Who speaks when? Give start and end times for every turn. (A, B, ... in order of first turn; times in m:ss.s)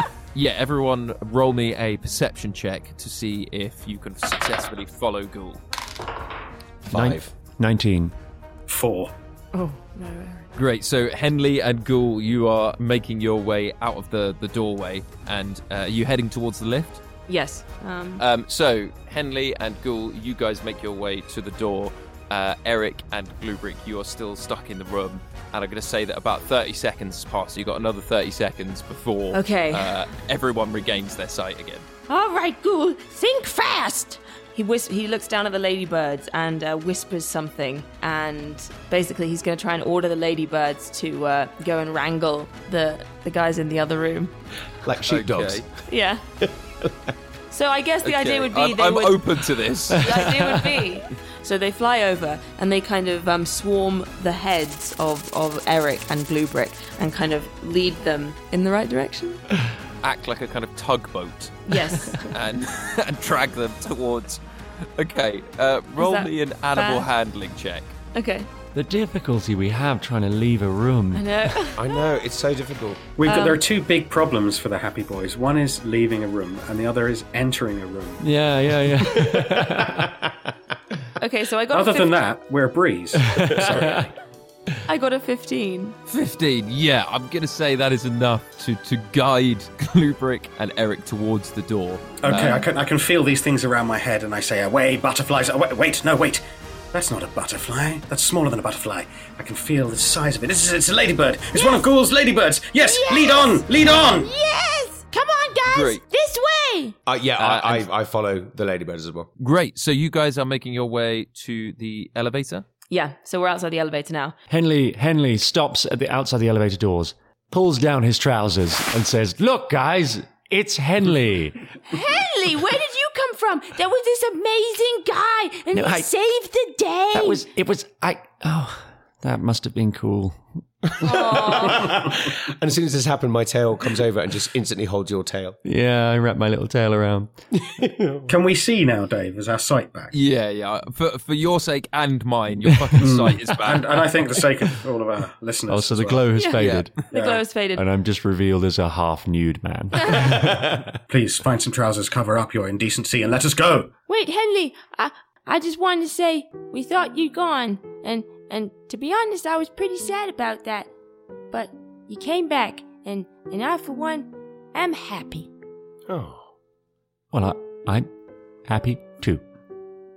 0:00.3-0:05.6 A
0:06.9-0:07.3 B
0:06.9-0:08.1 C
0:08.7-0:09.1 D
0:09.5-0:10.5 E
0:10.6-0:17.0 A
0:17.3-0:18.2 E
0:18.2-0:31.9 A
0:29.3-0:30.0 E
0:32.1-0:34.2 F
0:34.5-0:44.3 E
0:44.8-0:45.8 B
0:45.1-0:45.6 A
0:45.9-0:46.2 E
0:46.5-0:46.9 B
0:47.5-0:49.3 E
0:48.0-0:50.1 A
0:49.9-0:50.9 C
0:50.0-0:59.4 E
1:00.0-1:04.4 A
1:01.7-1:02.3 E
1:05.0-1:07.9 A
1:06.0-1:07.1 E
1:08.1-1:08.5 E
1:08.7-1:11.6 C
1:11.1-1:11.8 E
1:11.8-1:13.1 B
1:13.2-1:18.2 D
1:13.2-1:13.6 E
1:18.2-1:20.1 C
1:21.2-1:22.3 E
1:21.7-1:24.1 D
1:23.2-1:24.1 C
1:24.9-1:26.0 E
1:26.1-1:32.6 A
1:32.2-1:44.3 D
1:41.5-1:41.8 F
1:42.8-1:47.0 F
1:45.7-1:46.0 A
1:47.1-1:49.3 B
1:47.4-1:47.9 A
1:49.4-1:52.6 A
1:52.9-1:54.4 E
1:54.5-2:01.6 C
2:01.9-2:07.4 F
2:05.7-2:06.1 C
2:07.1-2:10.6 C
2:11.0-2:15.6 B
2:11.0-2:11.8 E
2:11.8-2:12.1 D
2:15.6-2:17.3 C
2:17.6-2:18.3 B
2:18.3-2:20.1 D
2:20.1-2:24.1 A
2:23.0-2:26.3 D
2:25.7-2:27.0 C
2:26.4-2:27.8 E
2:26.6-2:26.9 A
2:27.1-2:27.4 D
2:27.8-2:31.0 C
2:31.1-2:33.9 D
2:34.1-2:40.9 F
2:41.5-2:45.5 F
2:46.1-2:46.5 B
2:47.3-2:48.1 C
2:48.7-2:49.4 C